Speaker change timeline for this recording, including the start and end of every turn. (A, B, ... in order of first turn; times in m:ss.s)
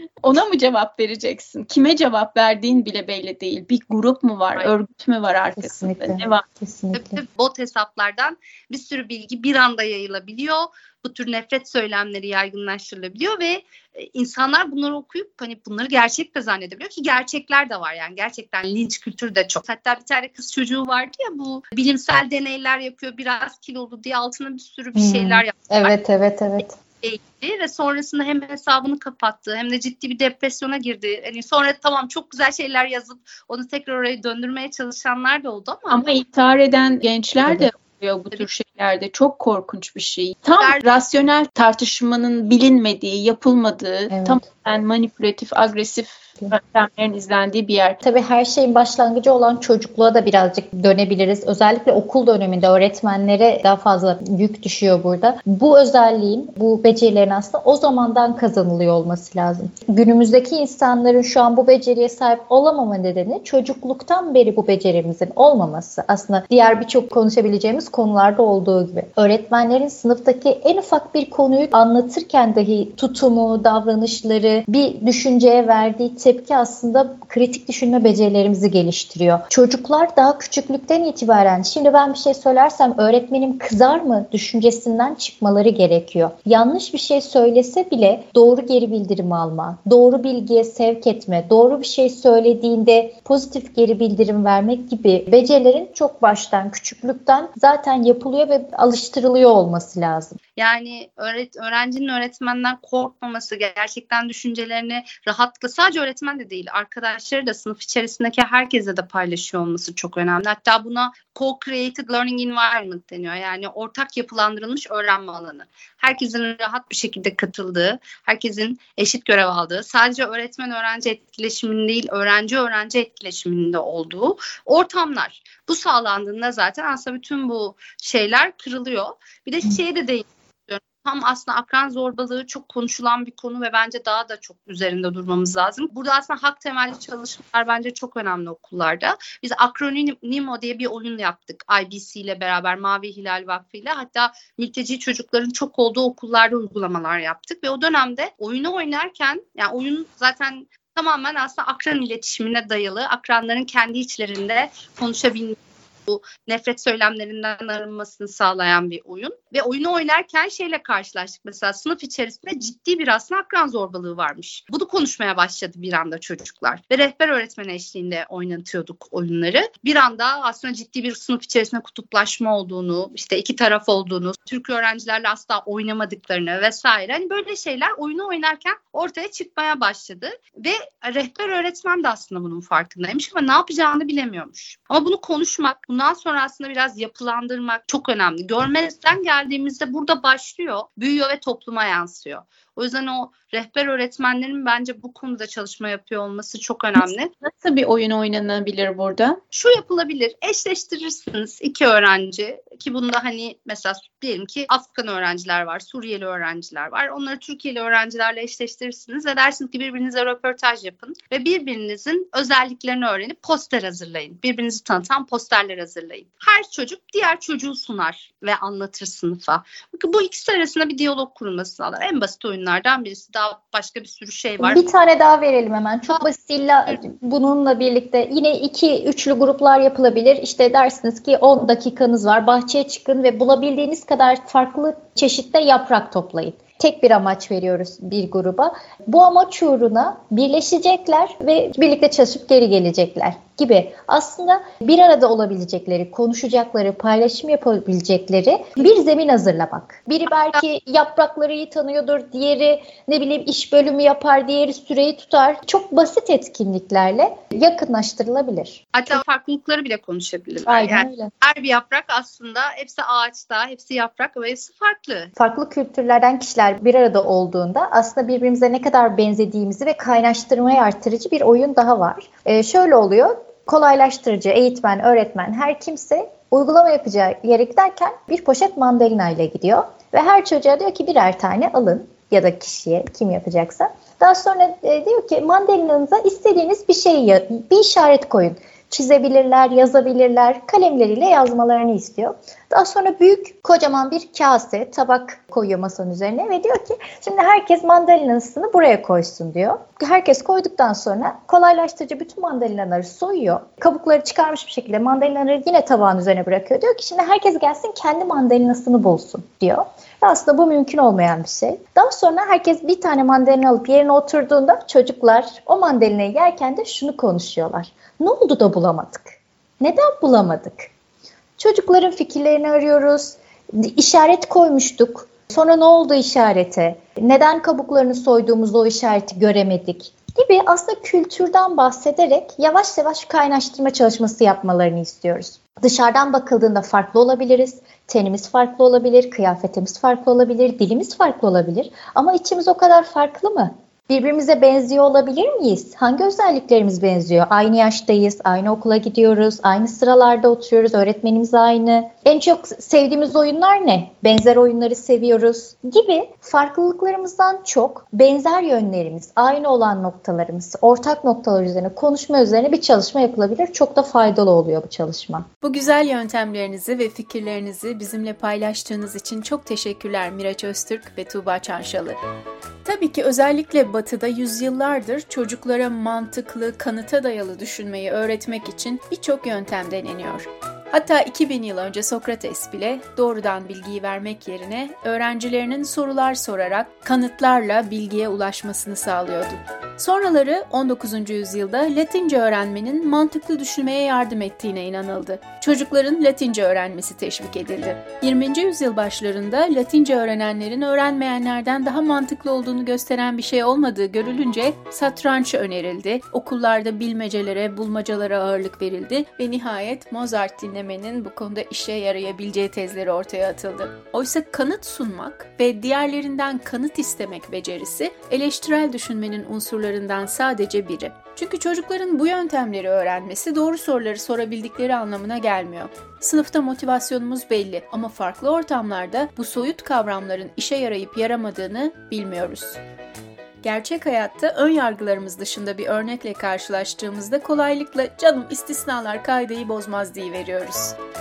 0:00.2-0:06.4 A
0:05.6-0:07.2 B
0:06.9-0:26.0 C
0:24.9-0:26.7 B
0:27.0-0:36.0 C
0:35.9-0:48.0 A
0:37.4-0:37.7 B
0:40.6-0:40.9 C
0:44.1-0:44.4 B
0:48.0-1:40.4 B
1:40.6-3:17.3 C
3:17.0-3:19.4 A
3:19.5-3:44.8 C
3:44.6-4:19.2 B
4:18.9-4:25.3 C
4:20.6-4:21.3 B
4:25.4-5:19.3 B
5:19.8-5:20.9 B
5:21.6-6:05.5 B
6:05.6-6:12.2 A
6:12.8-7:12.8 A
7:13.6-7:21.0 A